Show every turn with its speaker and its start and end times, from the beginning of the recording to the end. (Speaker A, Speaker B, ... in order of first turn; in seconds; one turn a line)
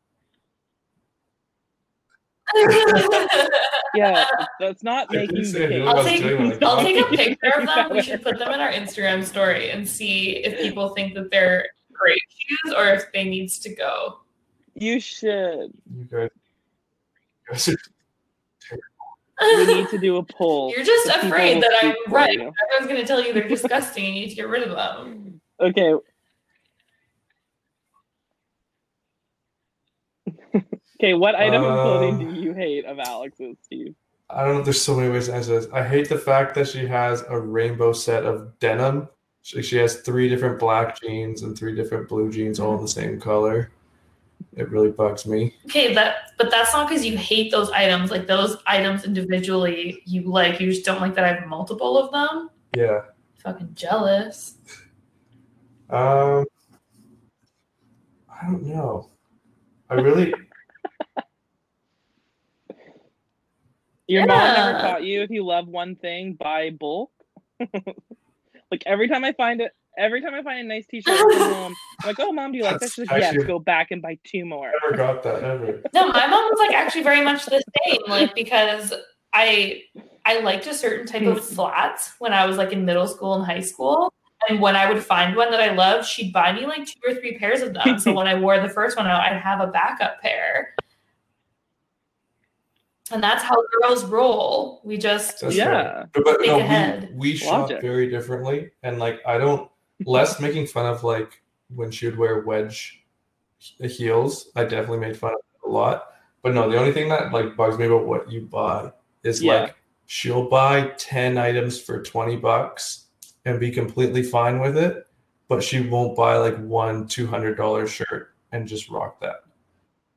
Speaker A: 2.5-4.3
Speaker B: 2.9-3.1
Speaker C: 3.9-8.3
Speaker B: 5.1-7.2
Speaker A: 5.8-14.2
Speaker C: 14.8-15.7
Speaker B: 15.9-16.3
Speaker B: 17.4-17.9
Speaker B: 18.6-19.1
Speaker A: 19.4-19.9
Speaker C: 19.5-22.6
Speaker A: 20.7-25.2
Speaker C: 25.6-26.0
Speaker C: 30.5-34.0
Speaker B: 31.4-32.3
Speaker B: 34.3-43.7
Speaker B: 44.5-45.5
Speaker A: 45.6-52.5
Speaker B: 52.7-53.0
Speaker A: 53.4-54.5
Speaker B: 55.9-56.5
Speaker B: 58.3-59.1
Speaker B: 59.9-60.4
Speaker C: 64.1-68.0
Speaker A: 64.2-64.9
Speaker C: 68.7-75.0
Speaker A: 71.1-71.5
Speaker B: 72.6-73.5
Speaker B: 74.7-75.8
Speaker A: 75.9-90.7
Speaker C: 87.8-88.2
Speaker A: 93.1-95.7
Speaker B: 95.4-103.0
Speaker C: 95.5-96.1
Speaker A: 96.4-97.1
Speaker C: 97.4-97.8
Speaker B: 103.8-119.4
Speaker C: 109.4-109.7